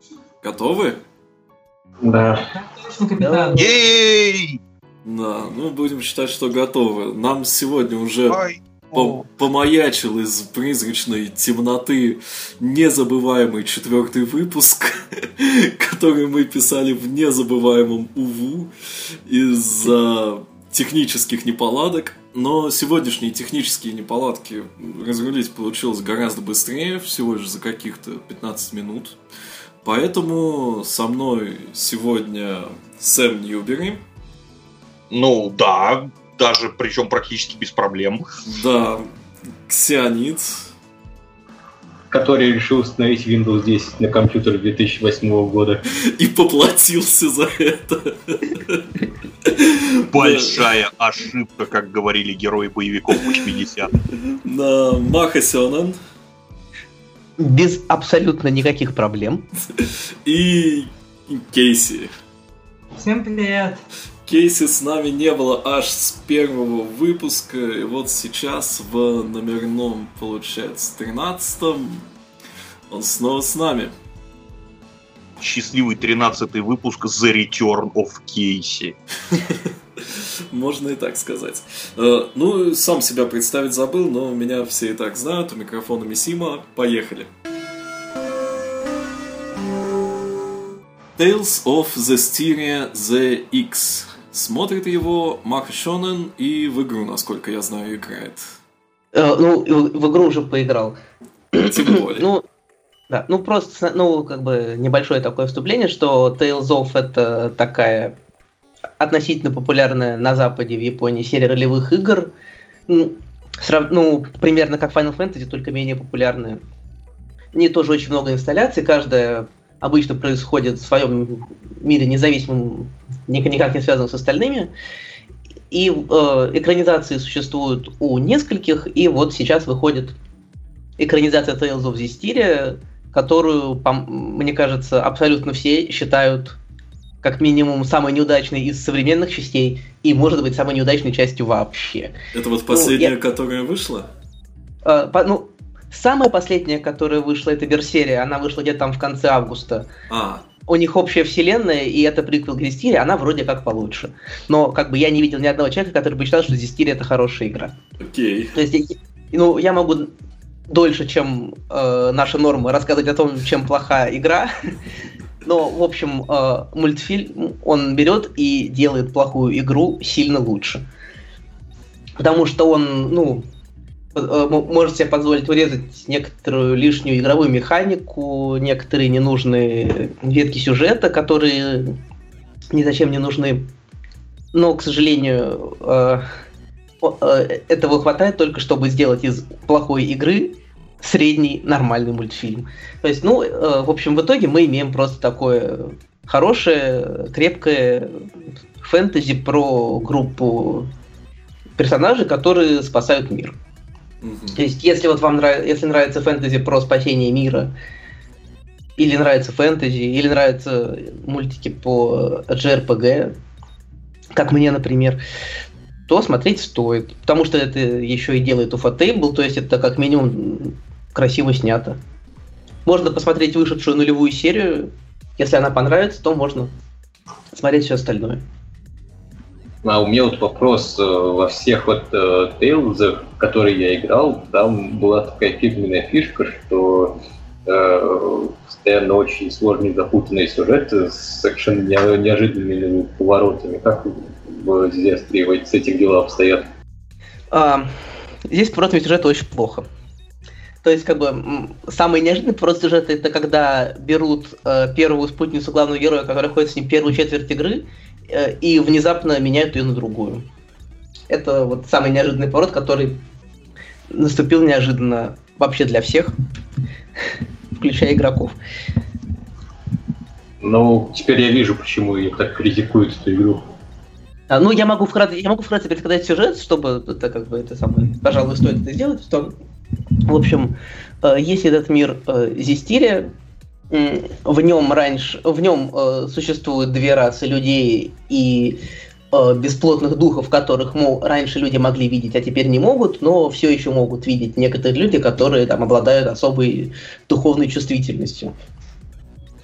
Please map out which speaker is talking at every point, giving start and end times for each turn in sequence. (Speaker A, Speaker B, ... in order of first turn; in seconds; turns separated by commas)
Speaker A: 0.4-1.0, Speaker B: 2.0-2.5, Speaker C: 2.5-3.7, Speaker D: 3.2-3.6, Speaker E: 3.5-4.6, Speaker A: 5.0-8.4, Speaker E: 8.3-9.2, Speaker A: 8.9-18.7, Speaker A: 19.2-29.2, Speaker A: 29.8-34.0, Speaker E: 35.1-38.2, Speaker A: 38.5-39.1, Speaker A: 39.7-40.7, Speaker B: 42.1-45.8, Speaker A: 46.0-48.9, Speaker A: 49.4-50.7, Speaker E: 50.1-53.9, Speaker A: 53.1-53.4, Speaker A: 54.1-56.0, Speaker D: 57.4-59.5, Speaker A: 59.8-62.1, Speaker C: 62.9-63.8, Speaker A: 64.2-72.1, Speaker A: 72.9-73.9, Speaker E: 75.4-79.0, Speaker A: 79.3-87.3, Speaker A: 91.2-98.4, Speaker D: 99.1-101.0, Speaker A: 101.5-102.3, Speaker D: 101.5-102.4, Speaker D: 103.1-108.1, Speaker D: 109.0-112.3, Speaker D: 112.9-116.6, Speaker D: 117.5-124.7, Speaker D: 125.7-130.2, Speaker D: 131.0-136.6, Speaker D: 137.2-142.2, Speaker A: 142.3-144.1, Speaker D: 142.7-143.1, Speaker D: 144.8-149.9, Speaker A: 150.1-150.4, Speaker D: 150.7-157.7, Speaker A: 158.0-158.6, Speaker D: 158.5-160.1, Speaker D: 160.7-164.5, Speaker D: 165.4-170.8, Speaker D: 172.2-173.4, Speaker D: 174.1-181.9, Speaker D: 182.7-183.7, Speaker D: 184.5-186.2, Speaker D: 187.0-198.3, Speaker D: 198.8-200.9, Speaker D: 201.8-203.6, Speaker A: 204.2-204.6, Speaker D: 204.5-207.7, Speaker D: 209.0-213.3, Speaker D: 214.3-215.2, Speaker D: 216.1-222.0, Speaker D: 222.8-226.7, Speaker D: 227.5-228.4, Speaker B: 229.8-246.7, Speaker D: 247.5-247.9, Speaker D: 248.5-249.8, Speaker D: 250.8-260.4, Speaker D: 261.3-263.2, Speaker D: 264.1-266.3, Speaker D: 267.8-268.5, Speaker B: 270.6-273.6, Speaker D: 274.5-279.5, Speaker D: 280.2-283.3, Speaker D: 283.9-288.8, Speaker D: 289.3-298.5